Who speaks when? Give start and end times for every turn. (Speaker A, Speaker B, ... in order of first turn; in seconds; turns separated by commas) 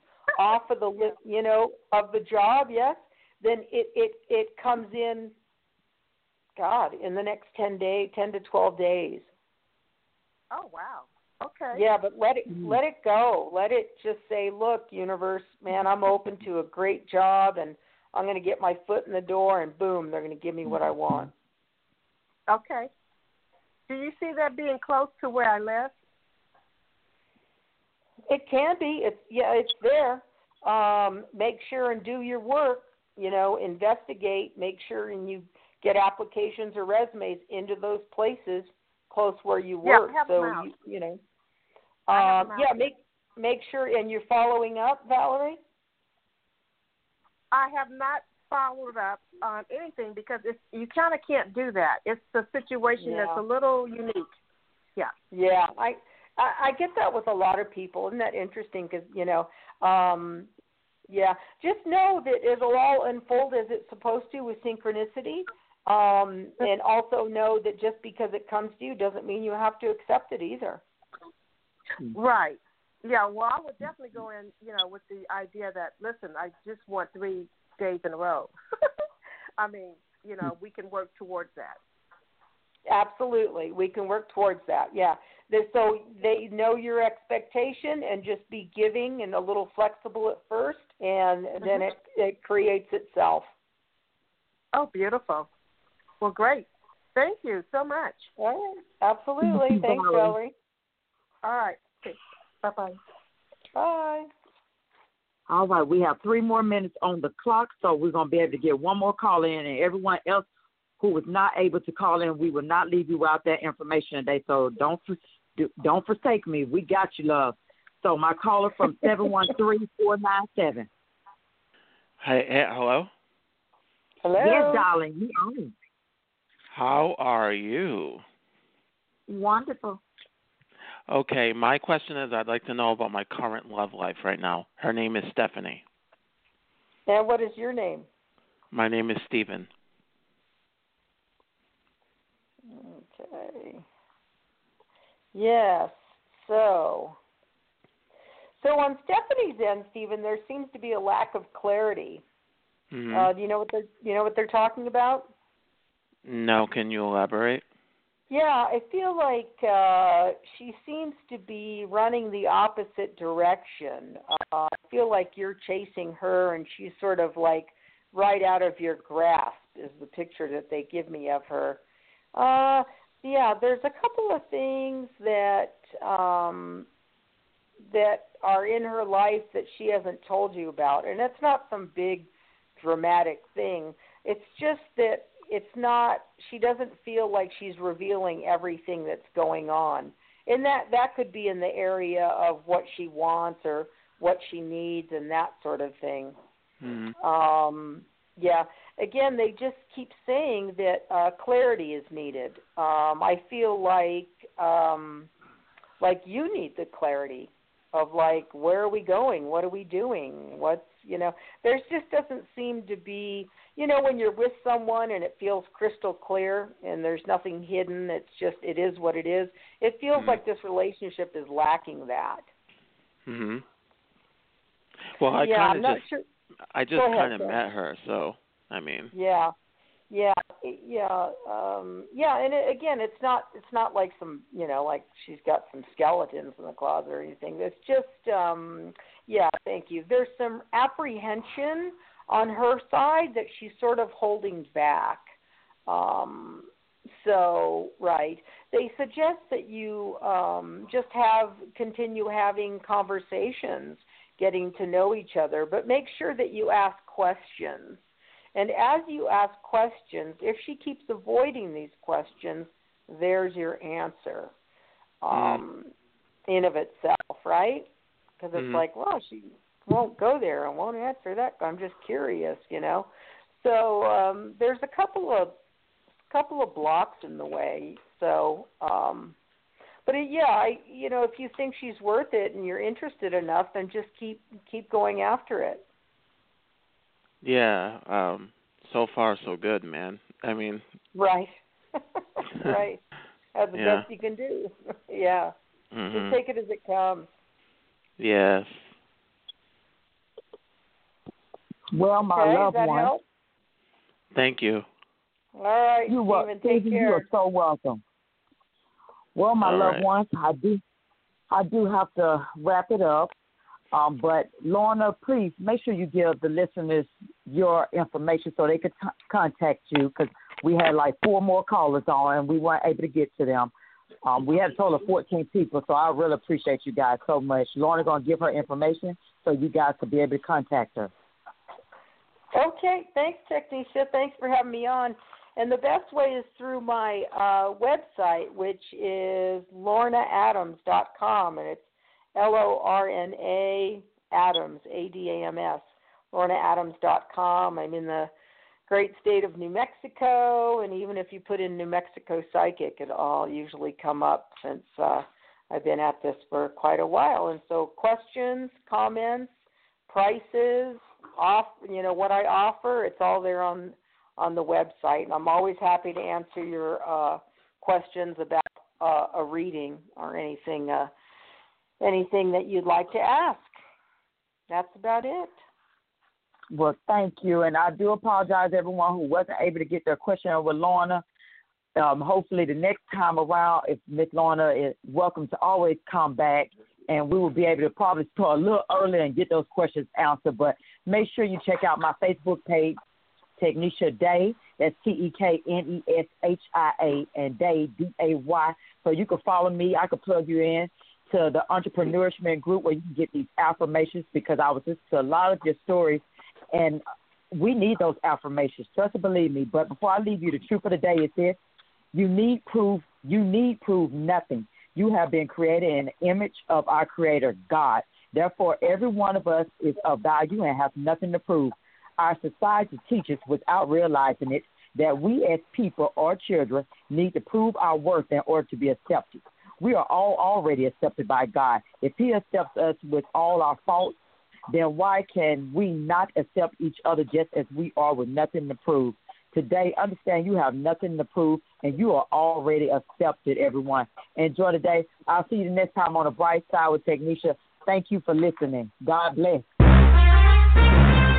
Speaker A: 0.4-5.3, Speaker A: 6.6-9.3, Speaker B: 10.5-11.8, Speaker A: 11.7-21.3, Speaker B: 22.5-22.9, Speaker B: 23.9-26.0, Speaker A: 28.3-41.2, Speaker B: 39.8-40.7, Speaker A: 42.1-45.6, Speaker B: 42.1-42.8, Speaker B: 47.5-54.3, Speaker A: 53.0-53.4, Speaker A: 55.3-60.5, Speaker A: 61.1-70.8, Speaker B: 72.1-78.5, Speaker B: 79.6-81.8, Speaker A: 82.9-93.5, Speaker B: 91.6-91.9, Speaker B: 94.7-95.5, Speaker B: 96.2-98.3, Speaker A: 98.4-100.5, Speaker C: 99.4-100.3, Speaker B: 101.4-103.0, Speaker A: 103.8-104.3, Speaker C: 105.5-110.5, Speaker C: 111.0-120.9, Speaker D: 122.2-123.1, Speaker A: 124.2-124.9, Speaker C: 124.3-125.7, Speaker D: 126.7-128.2, Speaker C: 129.3-129.9, Speaker D: 131.1-135.8, Speaker A: 137.1-138.1, Speaker D: 138.7-139.7, Speaker A: 142.7-143.8, Speaker A: 145.3-147.2, Speaker A: 148.6-152.2, Speaker D: 152.9-153.3, Speaker A: 153.1-155.3, Speaker D: 156.2-157.6, Speaker A: 158.3-171.8, Speaker A: 172.3-176.9, Speaker A: 177.8-196.4, Speaker D: 196.8-197.1, Speaker A: 197.2-205.3, Speaker A: 206.0-222.5, Speaker D: 220.1-220.4, Speaker D: 223.3-223.6, Speaker D: 225.2-226.1, Speaker A: 225.4-226.2, Speaker D: 226.7-229.1, Speaker A: 226.9-227.6, Speaker A: 229.1-229.5, Speaker A: 230.1-245.3, Speaker A: 245.9-258.0, Speaker A: 258.6-264.5, Speaker A: 265.2-265.9, Speaker D: 265.3-265.6, Speaker A: 266.5-267.9, Speaker A: 268.4-275.6, Speaker D: 268.6-268.8, Speaker A: 276.3-279.4, Speaker A: 280.1-285.8, Speaker D: 287.4-290.9, Speaker A: 291.1-291.6, Speaker A: 292.2-293.0, Speaker A: 293.6-295.5, Speaker D: 293.8-294.1, Speaker D: 295.9-296.4, Speaker A: 296.1-297.3, Speaker D: 298.2-298.9, Speaker C: 301.9-303.1, Speaker A: 302.3-303.2, Speaker D: 304.3-304.9, Speaker A: 305.6-307.3, Speaker C: 306.1-308.0, Speaker C: 309.4-310.8, Speaker D: 309.6-310.1, Speaker C: 311.5-313.3, Speaker C: 313.9-323.7, Speaker C: 324.2-331.1, Speaker A: 332.5-348.3, Speaker A: 348.9-359.5, Speaker A: 360.1-371.1, Speaker A: 372.0-373.7, Speaker A: 374.7-375.6, Speaker C: 376.7-381.2, Speaker C: 382.0-393.0, Speaker C: 393.6-407.0, Speaker C: 407.5-411.6, Speaker C: 412.1-434.2, Speaker C: 434.7-449.6